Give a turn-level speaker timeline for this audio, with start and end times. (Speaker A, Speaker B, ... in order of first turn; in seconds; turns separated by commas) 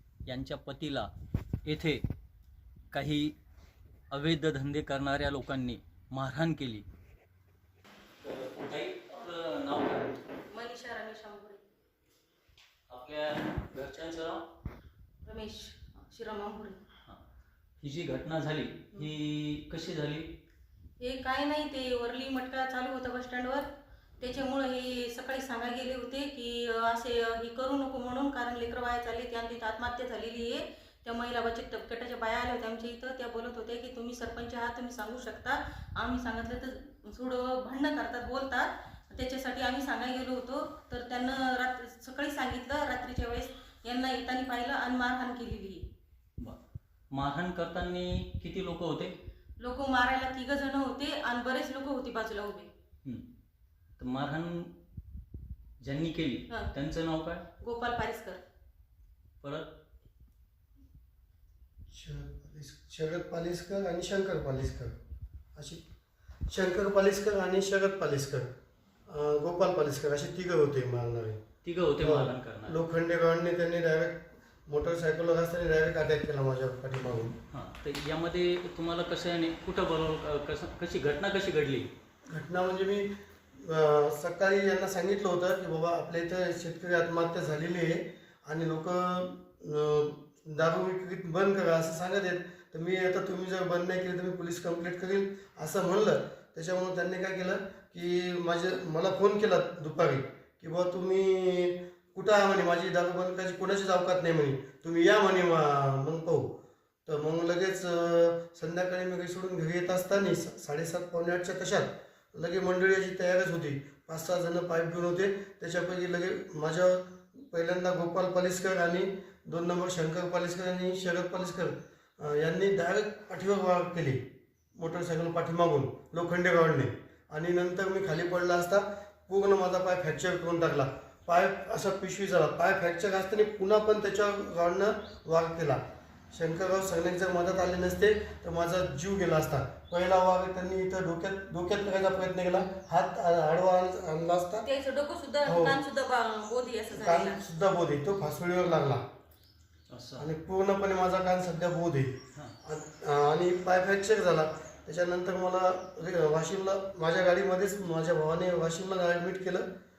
Speaker A: 0.2-1.1, Speaker A: 1.6-2.0, Speaker A: 2.9-3.4, Speaker A: 4.1-6.8, Speaker A: 8.2-10.2, Speaker B: 10.5-11.6, Speaker A: 12.9-14.4, Speaker B: 15.2-16.8, Speaker A: 17.8-20.3, Speaker B: 21.0-23.6, Speaker B: 24.2-45.8, Speaker A: 47.1-49.1, Speaker B: 49.6-52.7, Speaker A: 54.0-54.7, Speaker A: 55.8-57.4, Speaker B: 57.6-58.4, Speaker A: 59.4-59.7, Speaker C: 61.9-65.0, Speaker C: 65.5-65.8, Speaker C: 66.5-68.5, Speaker C: 69.1-71.4, Speaker A: 71.6-72.8, Speaker C: 72.0-77.3, Speaker A: 77.5-81.9, Speaker C: 82.3-106.5, Speaker C: 107.0-124.2, Speaker C: 124.8-135.8, Speaker C: 136.3-144.7, Speaker B: 144.6-147.4, Speaker C: 145.4-145.8, Speaker C: 146.9-149.0, Speaker A: 149.9-150.3, Speaker C: 150.2-159.6